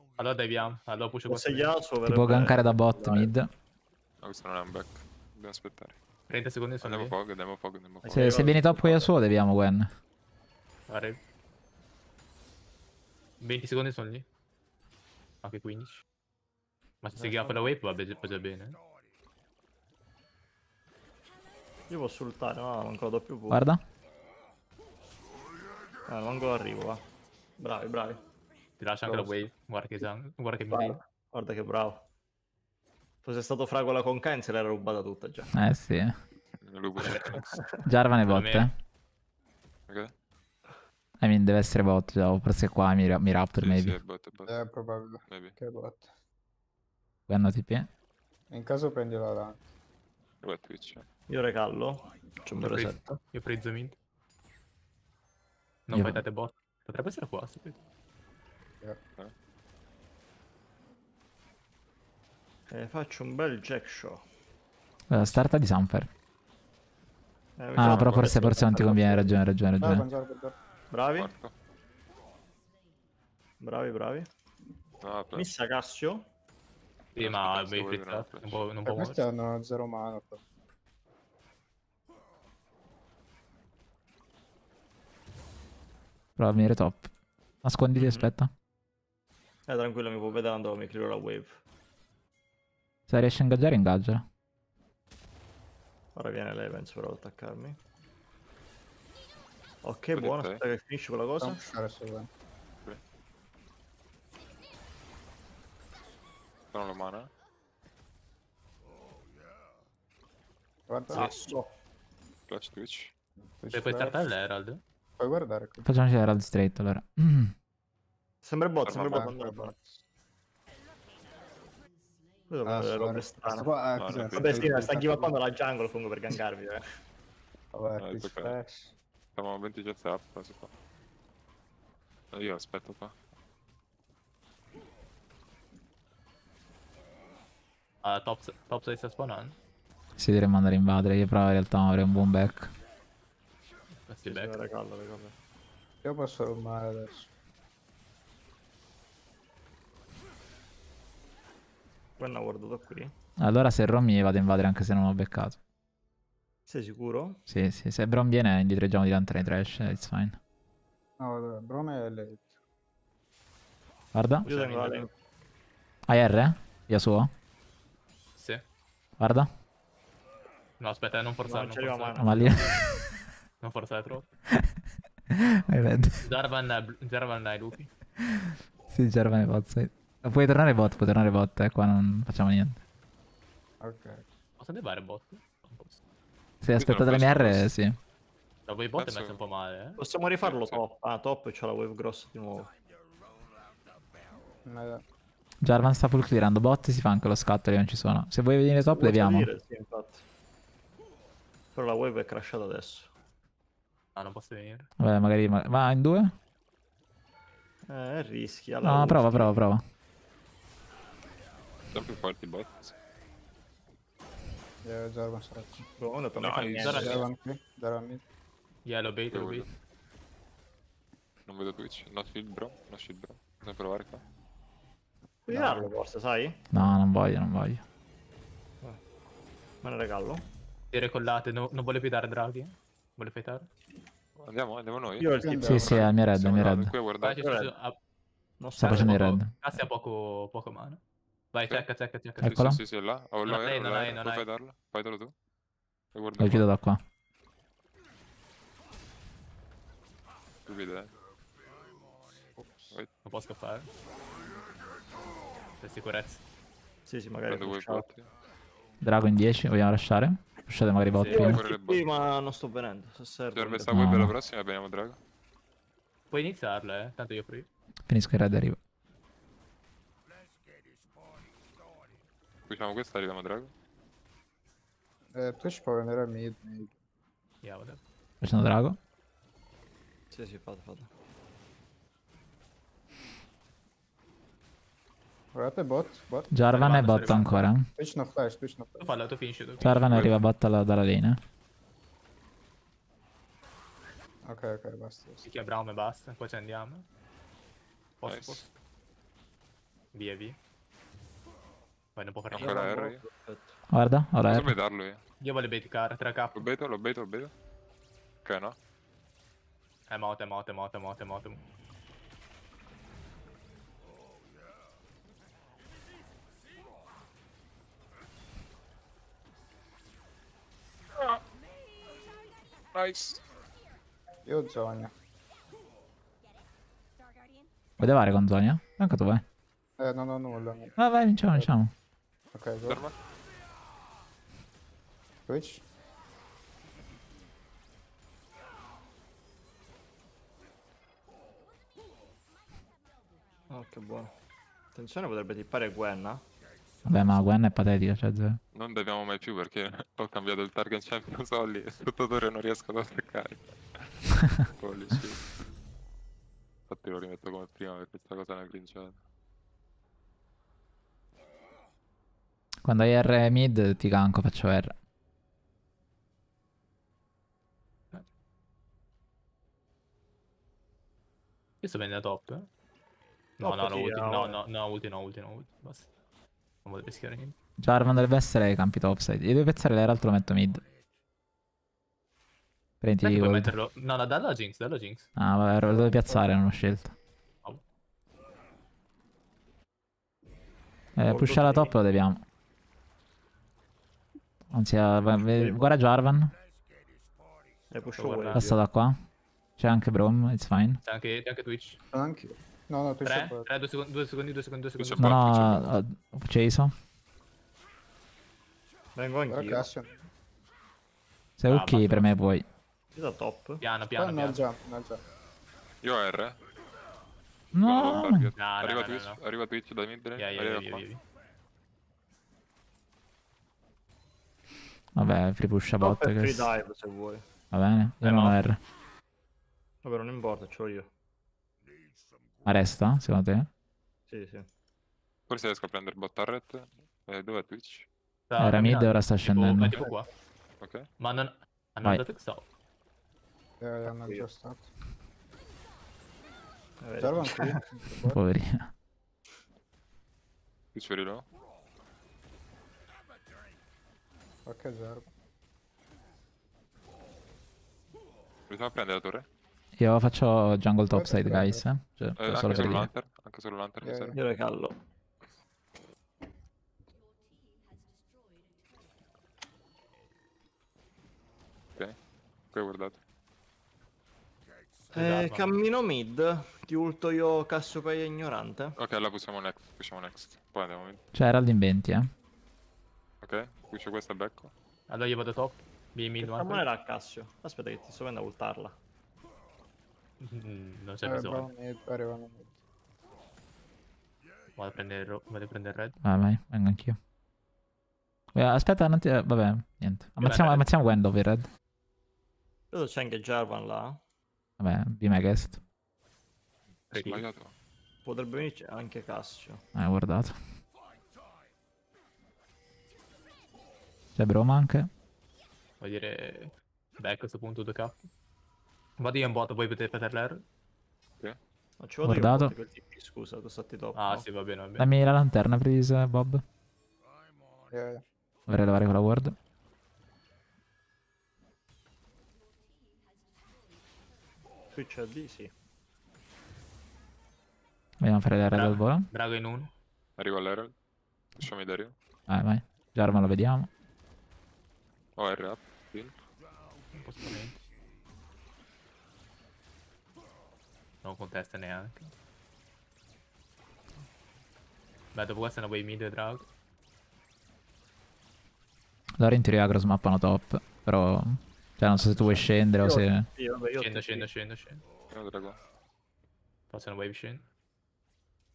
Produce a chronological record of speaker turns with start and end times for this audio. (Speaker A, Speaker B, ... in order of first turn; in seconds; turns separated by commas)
Speaker A: 0.2-1.8, Speaker B: 1.3-3.3, Speaker C: 2.0-3.5, Speaker D: 4.2-6.0, Speaker A: 6.3-7.1, Speaker D: 6.8-8.4, Speaker B: 8.0-9.1, Speaker C: 8.1-9.9, Speaker A: 10.9-11.2, Speaker A: 13.4-14.2, Speaker A: 15.4-16.0, Speaker A: 17.0-18.8, Speaker B: 17.2-17.7, Speaker B: 21.9-23.6, Speaker C: 23.5-23.8, Speaker B: 26.1-27.1, Speaker B: 27.6-28.2, Speaker A: 28.8-31.0, Speaker B: 29.1-29.4, Speaker B: 30.7-32.0, Speaker B: 33.2-35.5, Speaker C: 35.5-36.1, Speaker D: 36.6-37.6, Speaker B: 37.0-37.9, Speaker C: 37.9-38.7, Speaker A: 38.3-38.7, Speaker C: 41.2-44.0, Speaker D: 43.6-44.6, Speaker E: 44.5-46.1, Speaker D: 45.3-45.6, Speaker C: 47.3-47.9, Speaker E: 48.5-49.6, Speaker D: 50.4-51.1, Speaker B: 51.3-53.2, Speaker A: 52.6-54.0, Speaker A: 55.9-57.8, Speaker C: 55.9-56.2, Speaker B: 62.7-64.2, Speaker C: 65.1-66.1, Speaker B: 67.6-69.4, Speaker C: 67.7-70.0, Speaker D: 67.8-68.3, Speaker E: 69.8-70.5, Speaker B: 70.9-71.3, Speaker D: 71.1-71.5, Speaker B: 73.6-74.3, Speaker D: 75.0-75.5, Speaker B: 75.3-76.3, Speaker D: 77.2-78.6, Speaker A: 77.2-79.2, Speaker E: 78.8-80.4, Speaker C: 86.4-87.1, Speaker C: 87.6-88.5, Speaker B: 87.9-88.3, Speaker B: 89.7-91.6, Speaker C: 93.1-94.2, Speaker B: 96.1-97.8, Speaker B: 99.8-101.6, Speaker D: 100.1-100.6, Speaker E: 101.4-102.3, Speaker D: 106.7-107.3, Speaker E: 110.9-111.4, Speaker B: 111.1-111.7, Speaker D: 112.5-113.1, Speaker E: 113.6-114.2, Speaker A: 113.7-114.8, Speaker E: 115.2-115.8, Speaker C: 115.8-117.5, Speaker B: 118.4-119.7, Speaker D: 118.8-119.2, Speaker E: 119.0-120.0, Speaker B: 122.5-123.7, Speaker E: 122.6-125.4, Speaker D: 124.0-124.7, Speaker B: 124.3-126.8, Speaker E: 127.7-128.9, Speaker D: 128.0-128.5, Speaker D: 129.3-130.7, Speaker D: 132.3-133.1, Speaker A: 138.0-139.6, Speaker C: 140.2-142.7, Speaker A: 144.1-144.6, Speaker B: 144.2-145.3, Speaker E: 146.0-147.3, Speaker B: 152.2-153.1, Speaker C: 153.4-155.6, Speaker B: 156.7-157.4, Speaker C: 157.5-160.4, Speaker E: 161.2-162.6, Speaker C: 164.1-164.4, Speaker A: 164.4-165.1, Speaker B: 164.4-165.1, Speaker C: 166.1-167.3, Speaker A: 168.3-168.6, Speaker C: 169.2-169.5, Speaker A: 170.8-172.8, Speaker B: 171.4-172.7, Speaker C: 172.2-173.0, Speaker A: 173.6-174.3, Speaker C: 175.3-176.2, Speaker A: 176.2-177.9, Speaker C: 178.3-182.8, Speaker E: 183.8-184.2, Speaker A: 184.6-186.0, Speaker C: 186.6-188.0, Speaker D: 186.8-187.7, Speaker A: 188.7-190.0, Speaker D: 188.9-189.4, Speaker B: 190.0-192.7, Speaker D: 190.4-190.8, Speaker E: 194.6-195.0, Speaker C: 195.6-199.5, Speaker B: 198.9-200.2, Speaker B: 201.7-203.1, Speaker A: 204.1-204.9, Speaker C: 205.0-206.3, Speaker B: 207.9-209.6, Speaker C: 208.8-209.8, Speaker D: 211.9-212.9, Speaker E: 214.8-215.9, Speaker B: 215.9-217.2, Speaker D: 216.4-217.2, Speaker A: 216.8-217.2, Speaker E: 216.8-218.2, Speaker A: 218.8-219.7, Speaker D: 219.3-219.7, Speaker D: 221.5-224.2, Speaker B: 225.5-226.9, Speaker E: 225.5-225.9, Speaker C: 226.7-227.8, Speaker B: 229.8-230.4, Speaker A: 230.9-233.7, Speaker D: 234.4-237.5, Speaker B: 235.2-236.0, Speaker E: 235.3-236.0, Speaker C: 235.6-236.9, Speaker A: 237.2-237.9, Speaker B: 237.4-237.7, Speaker B: 238.6-239.2, Speaker C: 238.8-239.5, Speaker A: 238.8-241.0, Speaker A: 241.5-242.6, Speaker C: 242.4-242.8, Speaker D: 242.4-245.3, Speaker A: 243.4-244.5, Speaker D: 246.1-246.7, Speaker C: 246.4-247.0, Speaker D: 250.7-251.1, Speaker A: 253.2-253.9, Speaker A: 255.8-256.4, Speaker B: 257.1-258.1, Speaker D: 257.5-258.3, Speaker C: 259.0-261.6, Speaker A: 261.1-261.5, Speaker B: 261.3-264.0, Speaker D: 261.3-262.1, Speaker D: 263.5-265.2, Speaker C: 263.9-264.3, Speaker A: 266.3-267.7, Speaker C: 268.1-268.8, Speaker D: 272.7-273.7, Speaker E: 275.3-276.9, Speaker A: 277.6-278.0, Speaker C: 278.4-279.0, Speaker B: 280.3-281.1, Speaker E: 285.5-286.6, Speaker C: 286.5-287.9, Speaker A: 286.7-287.6, Speaker E: 287.2-287.4, Speaker E: 287.9-289.1, Speaker A: 289.0-289.9, Speaker C: 289.8-291.4, Speaker D: 289.8-290.4, Speaker E: 294.4-295.4, Speaker A: 295.4-297.1, Speaker A: 298.2-298.7, Speaker D: 298.2-298.6, Speaker A: 300.1-300.6, Speaker A: 302.1-302.9, Speaker D: 302.5-303.2, Speaker B: 302.5-303.8, Speaker C: 303.9-304.7, Speaker D: 304.4-305.2, Speaker A: 305.4-306.6, Speaker D: 306.5-307.5, Speaker D: 308.4-308.8, Speaker A: 310.1-311.6, Speaker D: 322.9-323.4, Speaker E: 324.4-325.1, Speaker C: 328.0-329.4, Speaker E: 330.0-331.0, Speaker C: 331.0-331.9, Speaker E: 332.5-333.0, Speaker D: 332.9-333.1, Speaker E: 335.5-335.8, Speaker B: 343.7-344.3, Speaker B: 344.9-346.4, Speaker C: 347.1-348.6, Speaker D: 348.7-355.5, Speaker D: 356.9-359.2, Speaker C: 362.8-364.9, Speaker A: 371.8-372.7, Speaker A: 373.6-376.1, Speaker B: 373.6-374.6, Speaker A: 376.8-377.6, Speaker C: 377.8-380.8, Speaker C: 383.0-383.7, Speaker A: 383.2-385.3, Speaker C: 385.4-387.1, Speaker E: 385.8-386.5, Speaker C: 391.2-392.4, Speaker B: 391.2-391.9, Speaker C: 394.7-396.5, Speaker B: 395.5-395.9, Speaker B: 397.9-398.7, Speaker A: 398.1-398.8, Speaker C: 398.5-399.1, Speaker C: 399.8-401.0, Speaker A: 401.0-402.0, Speaker E: 402.1-403.7, Speaker A: 403.2-405.4, Speaker D: 405.0-405.9, Speaker C: 405.2-406.9, Speaker B: 409.1-409.9, Speaker E: 409.5-410.2, Speaker C: 411.6-412.6, Speaker A: 411.6-412.3, Speaker B: 413.1-413.8, Speaker A: 413.8-414.6, Speaker E: 414.1-415.2, Speaker D: 416.0-416.6, Speaker D: 417.7-421.0, Speaker C: 417.7-418.5, Speaker A: 418.6-419.4, Speaker A: 420.4-421.2, Speaker C: 425.1-426.7, Speaker B: 426.0-427.4, Speaker C: 427.7-428.8, Speaker A: 428.2-428.6, Speaker B: 430.0-431.1, Speaker C: 432.6-433.7, Speaker B: 434.3-434.7, Speaker D: 435.5-438.1, Speaker A: 438.5-440.3, Speaker C: 438.6-440.0, Speaker D: 440.8-441.1, Speaker A: 441.2-442.7, Speaker E: 443.8-444.9, Speaker B: 444.1-444.4, Speaker B: 447.0-447.9, Speaker E: 447.2-448.4, Speaker C: 448.3-448.9, Speaker D: 450.9-451.4, Speaker E: 454.6-455.3, Speaker D: 458.7-459.5, Speaker C: 460.0-463.1, Speaker E: 461.1-461.8, Speaker D: 462.4-464.4, Speaker A: 462.7-463.0, Speaker E: 464.0-464.4, Speaker B: 464.3-464.9, Speaker D: 472.7-473.2, Speaker A: 475.1-475.7, Speaker B: 475.1-479.0, Speaker D: 479.0-481.2, Speaker C: 481.3-482.3, Speaker D: 483.4-484.7, Speaker A: 485.1-486.8, Speaker B: 486.4-489.0, Speaker A: 490.4-491.7, Speaker E: 491.2-492.8, Speaker A: 494.8-496.1, Speaker C: 496.2-497.2, Speaker C: 498.5-501.7, Speaker A: 500.4-500.9, Speaker B: 502.9-504.2, Speaker C: 504.8-505.8, Speaker A: 507.1-507.4, Speaker D: 507.1-507.7, Speaker B: 508.2-509.8, Speaker C: 509.9-510.6, Speaker C: 514.4-515.1, Speaker A: 516.0-518.3, Speaker A: 519.2-520.6, Speaker B: 522.0-524.5, Speaker C: 522.2-522.7, Speaker A: 524.1-525.1, Speaker C: 525.0-526.6, Speaker E: 527.9-528.2, Speaker C: 528.7-529.5, Speaker B: 534.9-535.7, Speaker C: 538.2-539.3, Speaker A: 538.7-539.9, Speaker D: 540.4-540.9, Speaker D: 541.5-542.1, Speaker C: 542.5-543.9, Speaker D: 545.4-546.3, Speaker A: 547.1-547.8, Speaker A: 551.2-552.3, Speaker A: 555.3-556.7, Speaker C: 559.4-563.5, Speaker B: 563.0-564.5, Speaker A: 564.0-565.0, Speaker D: 565.3-565.8, Speaker A: 566.9-567.6